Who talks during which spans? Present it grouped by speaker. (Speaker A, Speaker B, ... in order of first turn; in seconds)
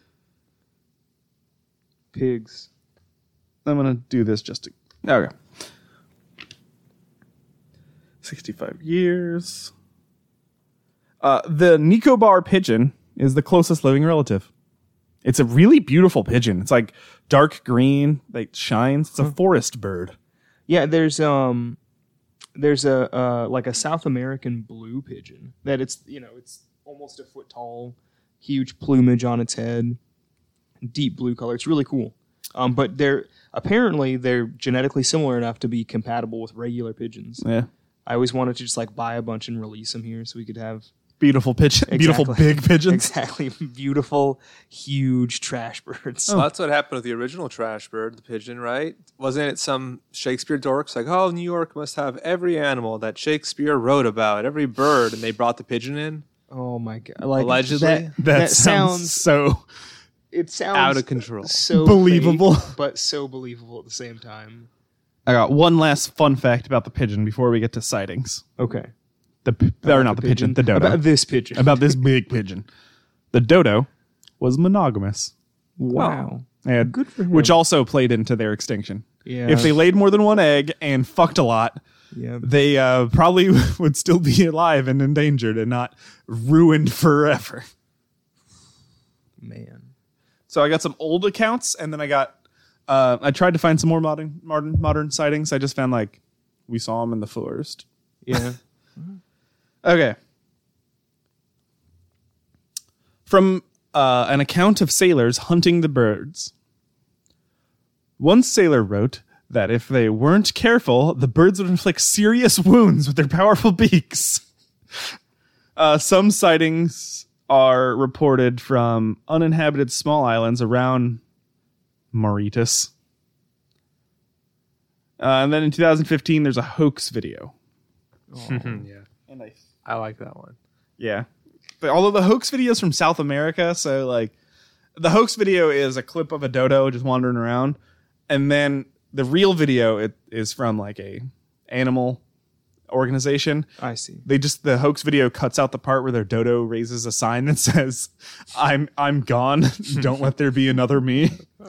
Speaker A: 2.1-2.7, 20.7-21.8, 22.6-30.0, 30.8-37.4, 38.1-40.9, 41.9-46.4, 56.5-59.2, 60.3-64.7, 68.6-68.9, 69.8-72.0, 75.8-77.6, 79.3-79.8, 82.1-82.5, 89.4-89.9, 98.2-99.2, 128.3-128.8, 143.8-144.3
Speaker B: 3.6-5.3, 8.2-9.7, 11.2-14.5, 15.2-20.1, 37.4-37.7, 41.2-43.1, 58.1-59.7, 61.7-62.7, 65.3-68.5, 69.5-72.7, 73.3-73.9, 74.4-75.3, 76.7-81.8, 82.4-87.7, 90.5-92.3, 92.9-97.8, 99.8-100.2, 103.3-106.5, 108.2-114.4, 115.8-121.2, 122.1-122.9, 125.2-127.5, 129.3-129.6, 131.0-131.3, 131.8-134.3, 135.0-137.8, 138.3-142.2, 142.9-143.7, 144.3-151.4
Speaker C: 46.3-56.3, 57.4-58.1, 60.7-61.6, 76.0-76.3, 128.5-129.1, 129.8-130.6